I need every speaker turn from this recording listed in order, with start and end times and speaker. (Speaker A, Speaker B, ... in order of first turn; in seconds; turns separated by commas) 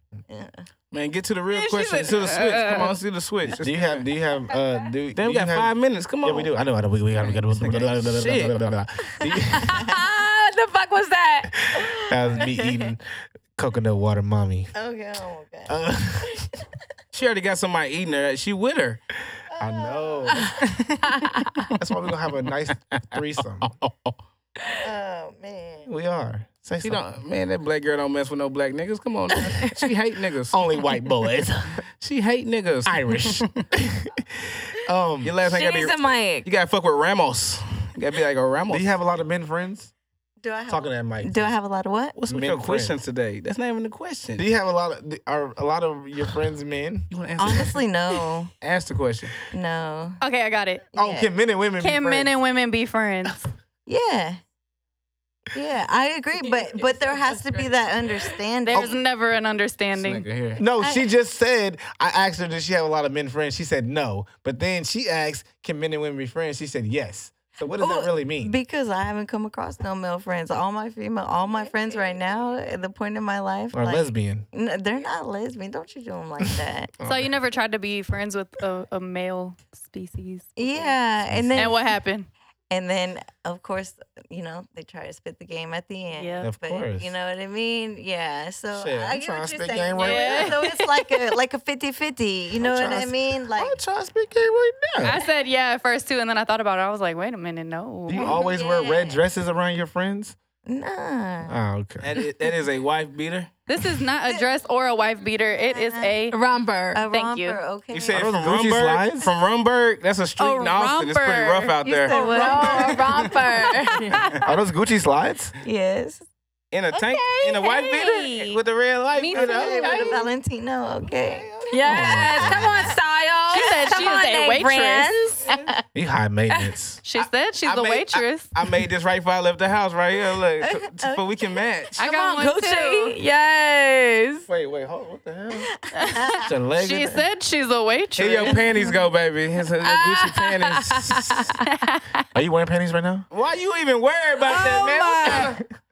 Speaker A: 0.3-0.7, Speaker B: 0.9-4.0, Speaker C: 1.5-2.9, Speaker D: 3.5-9.9, Speaker B: 5.1-6.5, Speaker B: 7.3-8.5, Speaker A: 9.2-9.9, Speaker E: 9.6-11.5, Speaker D: 11.6-13.0, Speaker A: 11.7-12.8, Speaker D: 13.6-14.7, Speaker A: 14.7-16.6, Speaker D: 15.7-16.4, Speaker B: 17.1-19.0, Speaker A: 19.5-21.0, Speaker D: 19.6-20.5, Speaker E: 21.1-21.5, Speaker D: 21.8-23.7, Speaker B: 23.7-24.1, Speaker A: 24.8-25.9, Speaker D: 25.9-27.0, Speaker B: 26.8-30.6, Speaker D: 30.5-31.8, Speaker B: 32.0-33.6, Speaker D: 32.8-35.3, Speaker B: 35.2-38.9, Speaker E: 35.5-36.5, Speaker D: 38.7-39.9, Speaker A: 40.4-42.1, Speaker D: 40.7-41.5, Speaker B: 42.1-44.4, Speaker D: 42.3-43.0, Speaker D: 44.4-47.1, Speaker B: 47.1-47.8, Speaker A: 47.4-48.5, Speaker B: 48.6-49.4, Speaker A: 49.5-50.2, Speaker C: 50.2-50.8, Speaker A: 50.9-51.3, Speaker D: 50.9-52.3, Speaker C: 51.8-53.5, Speaker A: 53.9-54.4, Speaker A: 55.5-59.0, Speaker E: 56.6-57.8, Speaker C: 58.6-60.3, Speaker D: 58.7-59.0, Speaker B: 59.9-60.6, Speaker D: 60.6-68.6, Speaker A: 60.8-61.1, Speaker A: 67.8-77.0, Speaker D: 73.7-74.5, Speaker D: 77.0-77.4, Speaker C: 77.0-81.0, Speaker A: 80.5-82.0, Speaker D: 81.3-81.7, Speaker C: 81.5-82.3, Speaker A: 82.7-93.8, Speaker C: 86.2-86.5, Speaker D: 86.4-87.1, Speaker D: 88.7-90.6, Speaker C: 90.0-91.1, Speaker D: 92.6-95.2, Speaker C: 95.0-98.4, Speaker D: 98.1-100.3, Speaker A: 98.1-99.2, Speaker A: 100.7-101.5, Speaker D: 101.5-102.1, Speaker B: 102.0-103.5, Speaker C: 103.7-106.3, Speaker A: 105.7-106.1, Speaker E: 106.3-107.0, Speaker A: 106.9-108.2, Speaker C: 107.1-107.6, Speaker B: 107.9-112.1, Speaker D: 108.1-109.3, Speaker C: 110.4-113.0, Speaker A: 111.9-113.2, Speaker E: 112.1-114.2, Speaker C: 114.1-114.4, Speaker D: 114.4-115.5, Speaker A: 115.6-116.2, Speaker B: 116.7-120.2, Speaker A: 116.9-117.7, Speaker C: 117.7-118.6, Speaker C: 119.2-120.2, Speaker A: 119.3-122.9, Speaker D: 121.2-123.0, Speaker E: 121.7-125.5, Speaker C: 123.5-125.7, Speaker D: 125.9-127.0, Speaker C: 127.0-128.5, Speaker B: 127.1-131.9, Speaker A: 130.6-131.6, Speaker C: 131.9-133.1, Speaker E: 132.0-134.5, Speaker D: 134.5-135.7, Speaker A: 135.7-136.5, Speaker C: 135.9-138.9, Speaker D: 136.4-137.2, Speaker B: 138.2-141.5, Speaker E: 139.8-141.6, Speaker C: 141.6-142.2, Speaker D: 142.3-143.2, Speaker B: 143.3-145.6, Speaker E: 144.4-145.6